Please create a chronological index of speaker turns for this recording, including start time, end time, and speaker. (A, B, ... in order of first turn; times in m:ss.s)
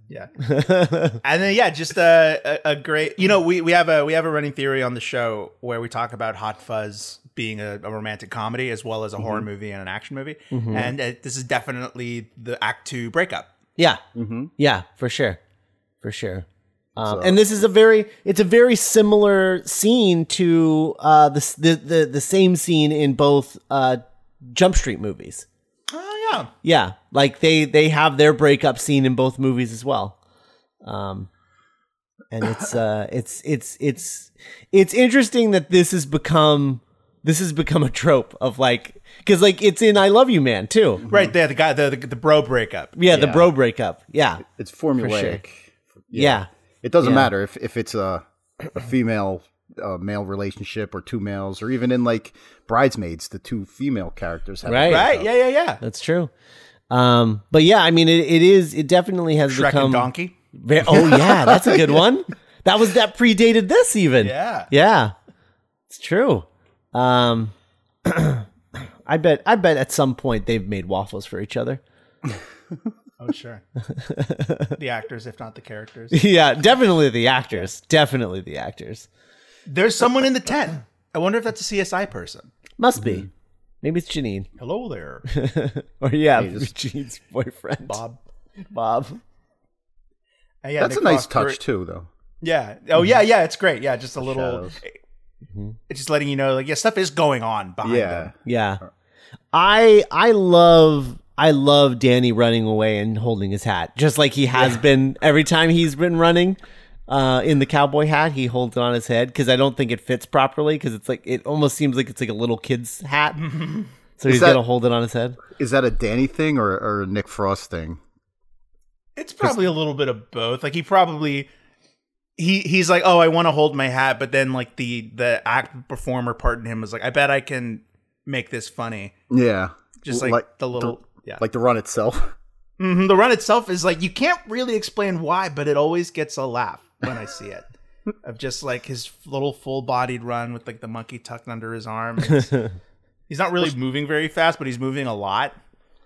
0:00.4-0:01.2 A
0:01.2-0:13.5 B
0:09.2-0:09.4 C
0:10.5-0:10.9 A
0:13.8-0:14.0 A
0:14.1-0:14.5 C
0:14.6-0:15.4 A
0:16.0-0:16.4 A
0:17.0-0:17.4 C
0:17.0-0:24.0 A
0:24.5-0:25.4 A
0:25.9-0:26.5 B
0:26.6-0:30.2 A
0:30.8-0:31.3 A
0:32.3-0:41.0 A
0:41.1-0:43.0 B
0:43.0-0:44.4 A
0:43.1-0:43.5 C
0:44.5-0:55.3 C
0:45.0-0:45.4 A
0:46.1-0:46.5 A
0:47.0-0:47.3 A
0:54.6-0:55.1 A
0:54.8-0:55.8 B
0:55.8-0:56.3 A
0:56.9-1:05.1 A
0:59.5-1:00.4 B
1:01.2-1:01.8 C
1:04.2-1:04.7 B
1:05.9-1:07.5 A
1:08.0-1:11.8 A
1:13.2-1:13.6 B
1:13.9-1:14.7 A
1:14.8-1:16.2 B
1:16.1-1:19.1 A
1:19.7-1:22.5 B
1:22.8-1:23.3 A
1:23.0-1:23.2 C
1:23.8-1:24.5 A
1:24.6-1:25.2 B
1:25.3-1:28.0 A
1:26.3-1:26.7 C
1:27.8-1:28.2 B
1:28.7-1:29.2 A
1:30.6-1:31.6 B
1:30.8-1:32.1 C
1:32.4-1:35.0 B
1:34.2-1:34.8 C
1:35.9-1:38.3 B
1:37.8-1:38.3 C
1:38.4-1:38.8 A
1:39.5-1:53.5 A
1:53.4-1:53.9 B
1:54.2-1:55.4 A
1:54.2-1:54.6 C
1:55.5-1:58.0 C
1:59.2-2:01.5 B
2:02.4-2:09.1 B
2:09.3-2:12.3 C
2:10.0-2:11.4 B
2:12.8-2:17.6 B
2:18.2-2:22.6 B
2:22.4-2:22.7 A
2:23.3-2:25.5 B